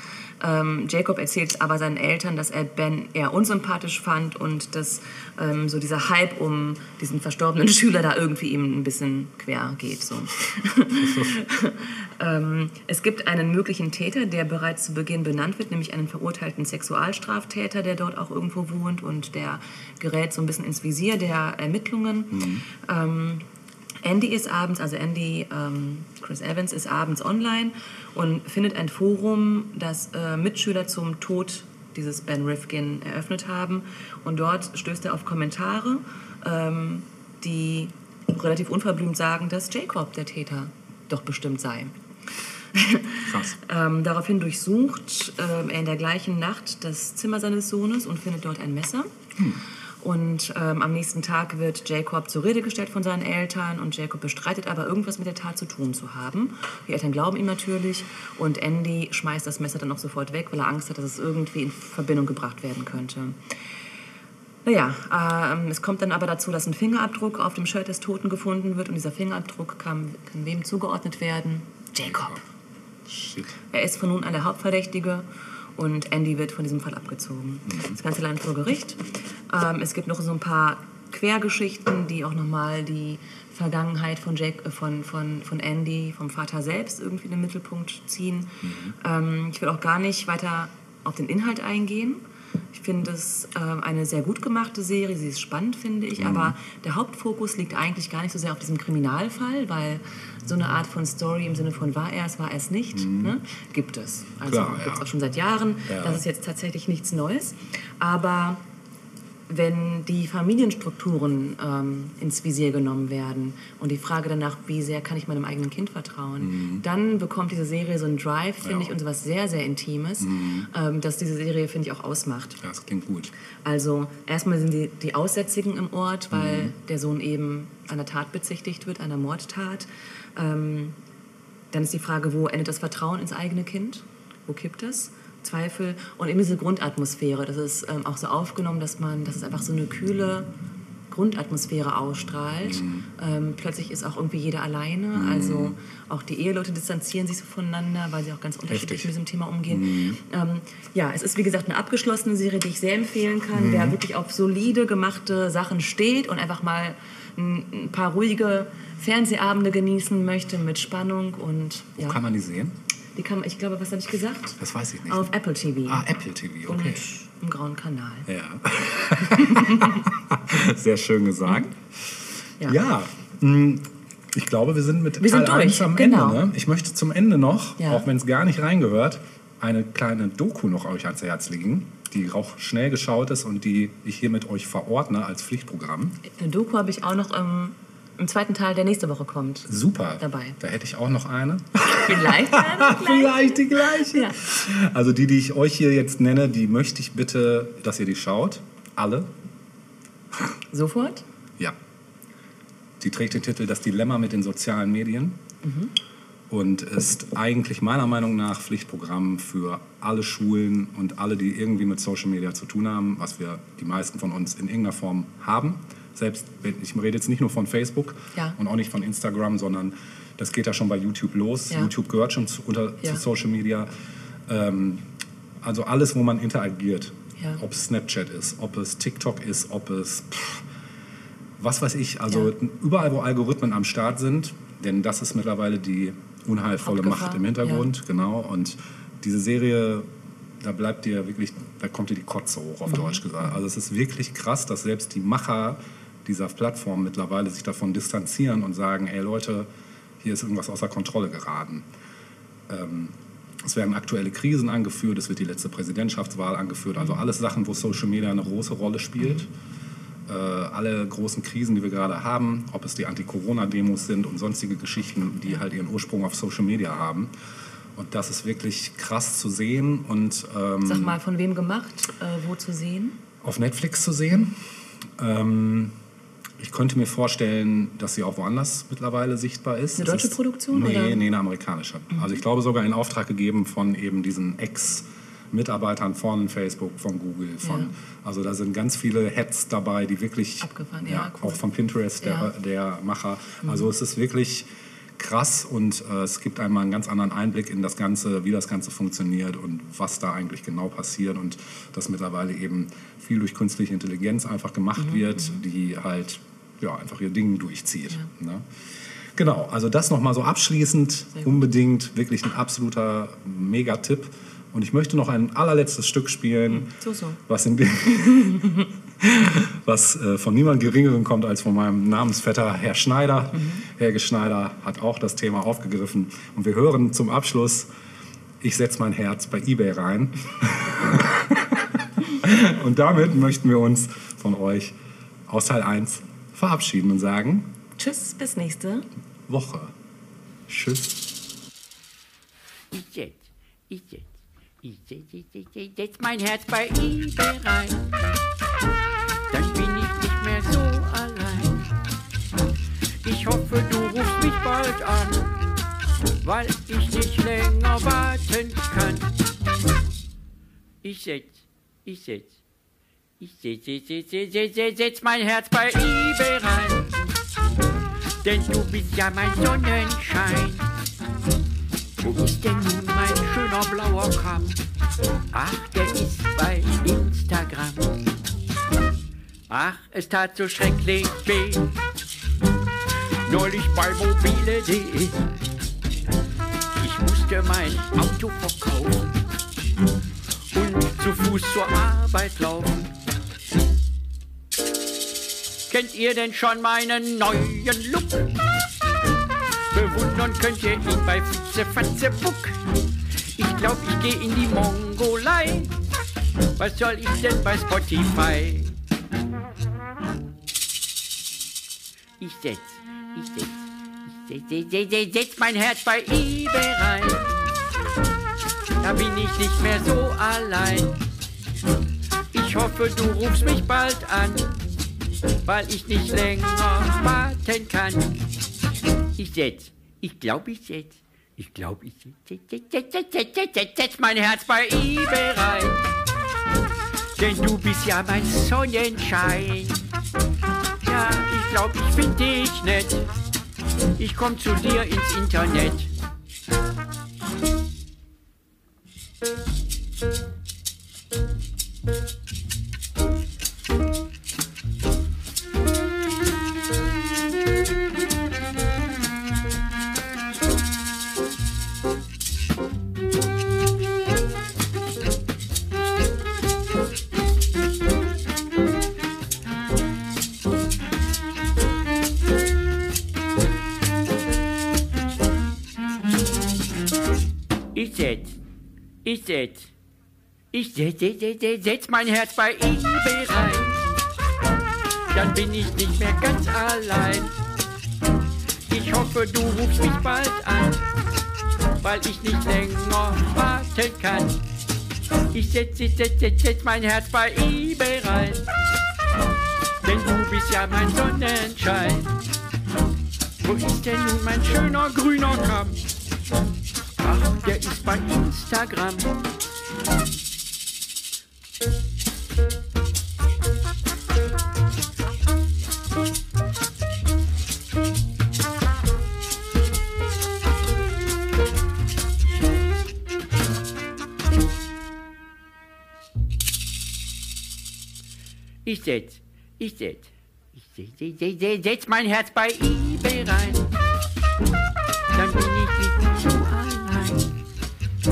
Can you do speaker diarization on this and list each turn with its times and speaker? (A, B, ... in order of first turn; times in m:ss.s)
0:00.4-0:23.4 A
0:11.0-0:11.4 B
0:22.3-0:22.6 B
0:24.0-0:41.9 A
0:42.7-0:49.1 A
0:43.3-0:43.6 B
0:50.0-1:03.4 A
1:04.6-1:12.4 A
1:12.0-1:12.4 B
1:13.1-1:13.6 B
1:13.7-1:32.2 A
1:17.7-1:18.0 B
1:28.6-1:28.9 B
1:32.7-1:48.6 A
1:36.2-1:36.6 B
1:43.0-1:43.4 B
1:44.5-1:45.0 B
1:45.9-1:46.2 B
1:49.5-2:02.6 A
1:56.4-1:56.8 B
1:58.6-1:59.0 B
2:00.2-2:00.7 B
2:02.6-2:03.3 B
2:03.6-2:11.0 A
2:06.3-2:06.7 B
2:11.7-2:20.5 A
2:21.1-2:42.2 A
2:22.7-2:23.0 B
2:25.2-2:25.8 B
2:28.7-2:29.1 B
2:29.7-2:30.2 B
2:33.5-2:34.0 B
2:42.0-2:42.8 B
2:43.2-2:46.0 A
2:44.6-2:45.3 B
2:45.9-2:47.1 B
2:46.7-2:48.3 A
2:48.3-3:06.2 B
2:49.3-2:50.0 A
2:55.2-2:56.4 A
2:57.8-2:58.0 A
3:06.3-3:10.6 A
3:09.7-3:19.3 B
3:12.0-3:14.4 A
3:20.7-3:21.2 A
3:23.0-3:25.4 B
3:25.6-3:25.9 A
3:26.5-3:43.9 B
3:44.5-3:45.1 B
3:45.6-3:50.7 B
3:51.6-4:00.1 B
3:56.8-3:57.9 A
4:00.6-4:09.7 B
4:02.9-4:03.2 A
4:10.2-4:11.9 B
4:12.7-4:19.5 B
4:20.3-4:27.3 B
4:28.0-4:31.2 B
4:30.8-4:33.2 A
4:33.4-4:34.6 B
4:35.2-4:35.9 B
4:36.6-4:54.7 B
4:40.0-4:41.2 A
4:47.6-4:47.9 A
4:50.6-4:51.6 A
4:52.2-4:52.5 A
4:55.2-5:27.9 B
5:05.1-5:05.6 A
5:16.7-5:17.4 A
5:28.6-5:35.0 B
5:35.5-5:37.7 B
5:38.0-5:39.1 A
5:39.5-5:39.9 B
5:40.7-5:41.2 B
5:42.9-5:44.3 C
5:44.8-5:48.0 C
5:49.5-5:51.9 C
5:53.2-5:55.6 C
5:56.4-5:59.3 C
6:01.0-6:02.5 C
6:03.4-6:07.2 C
6:08.4-6:10.9 C
6:12.2-6:14.8 C
6:15.5-6:18.2 C
6:19.7-6:21.9 C
6:23.4-6:25.4 C
6:27.0-6:29.3 C
6:30.7-6:33.1 C
6:35.9-6:38.5 C
6:39.9-6:42.8 C
6:43.6-6:45.9 C
6:46.8-6:48.9 C
6:52.4-6:57.5 C
6:59.0-7:01.2 C
7:02.5-7:04.7 C
7:05.6-7:08.4 C
7:09.4-7:16.0 C
7:17.4-7:20.0 C
7:21.0-7:23.3 C
7:24.2-7:26.1 C
7:57.9-7:58.6 C
7:59.2-7:59.9 C
8:00.7-8:04.0 C
8:05.3-8:07.5 C
8:08.9-8:11.0 C
8:12.0-8:14.6 C
8:15.5-8:18.6 C
8:20.0-8:22.3 C
8:23.6-8:26.0 C
8:27.2-8:29.4 C
8:48.8-8:53.9 C
8:55.3-8:57.6 C